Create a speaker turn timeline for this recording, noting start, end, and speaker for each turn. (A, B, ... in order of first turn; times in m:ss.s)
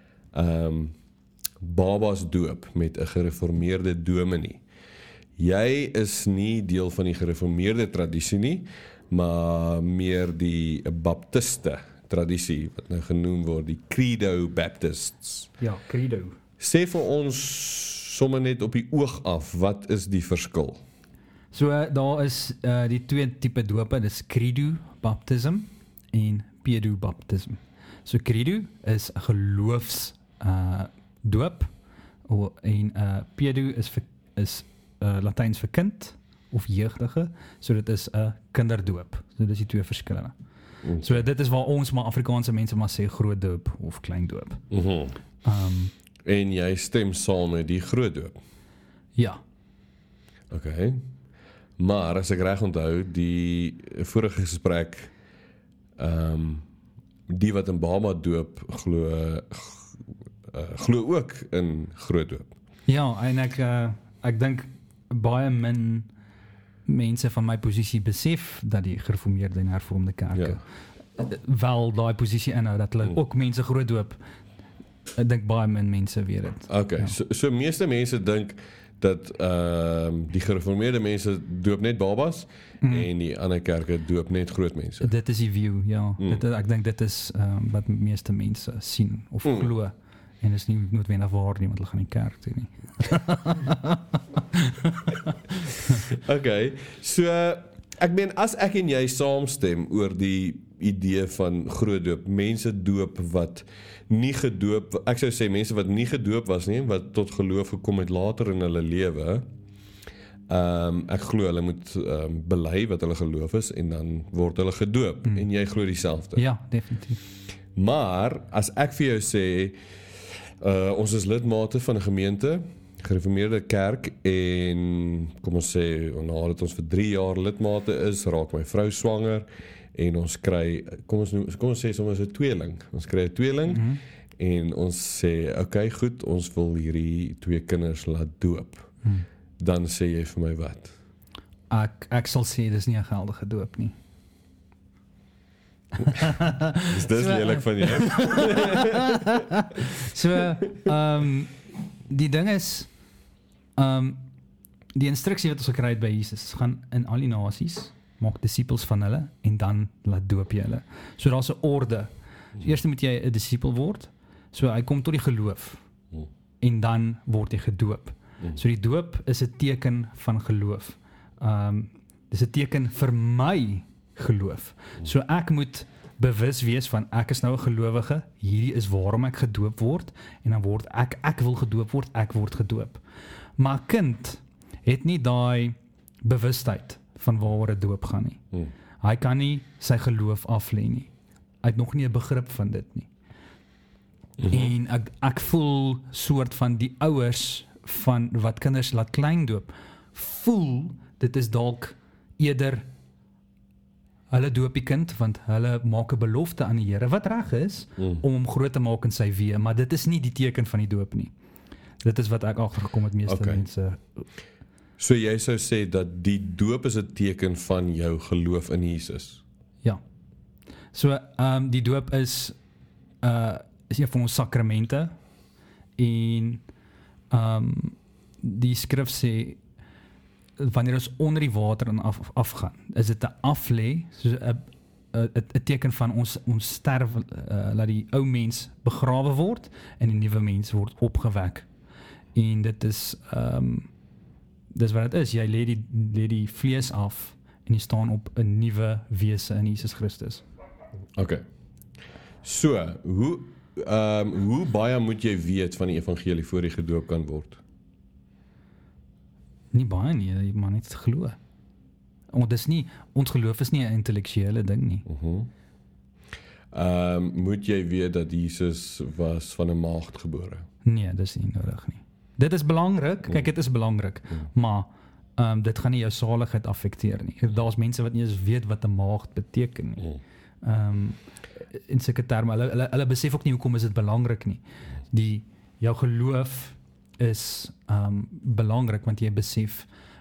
0:00.3-0:00.9 A
0:01.6-0:04.6 A
0:05.4-0:15.5 A
0:15.6-0:16.4 B
0:16.6-0:20.8 A
0:21.5-0:31.7 B
0:32.2-0:40.3 B
0:40.8-0:41.2 A
0:41.0-0:44.6 B
0:44.7-0:45.2 A
0:45.4-0:45.9 B
0:46.2-0:48.4 A
0:50.5-0:51.0 A
0:51.8-0:55.1 A
0:56.0-0:56.7 A
0:57.3-0:59.9 A
1:00.5-1:02.5 A
1:02.9-1:06.1 B
1:06.8-1:10.6 B
1:11.2-1:14.2 B
1:15.2-1:17.2 B
1:16.7-1:25.1 A
1:22.8-1:23.1 B
1:25.0-1:35.3 B
1:36.1-1:49.4 A
1:50.5-1:56.4 A
1:56.4-1:57.2 B
1:57.8-1:59.8 A
2:00.6-2:18.9 A
2:13.7-2:14.0 B
2:19.6-2:20.9 A
2:21.7-2:24.0 B
2:26.0-2:32.9 B
2:26.9-2:28.8 A
2:33.8-2:34.2 B
2:34.9-2:45.8 B
2:46.6-3:03.0 B
3:03.6-3:08.4 B
3:09.0-3:11.1 B
3:11.6-3:13.1 B
3:14.4-3:14.7 A
3:14.5-3:22.8 B
3:24.3-3:31.3 B
3:32.0-3:34.2 B
3:33.2-3:33.6 A
3:35.0-3:39.4 A
3:40.9-3:42.6 B
3:43.2-3:45.1 B
3:46.0-3:46.6 B
3:47.3-3:49.6 B
3:50.6-4:01.7 B
4:02.3-4:03.9 B
4:04.7-4:10.4 B
4:11.2-4:11.4 A
4:12.4-4:17.6 A
4:19.7-4:21.4 B
4:22.3-4:25.0 B
4:25.1-4:25.5 A
4:26.7-4:30.6 A
4:30.8-4:49.9 B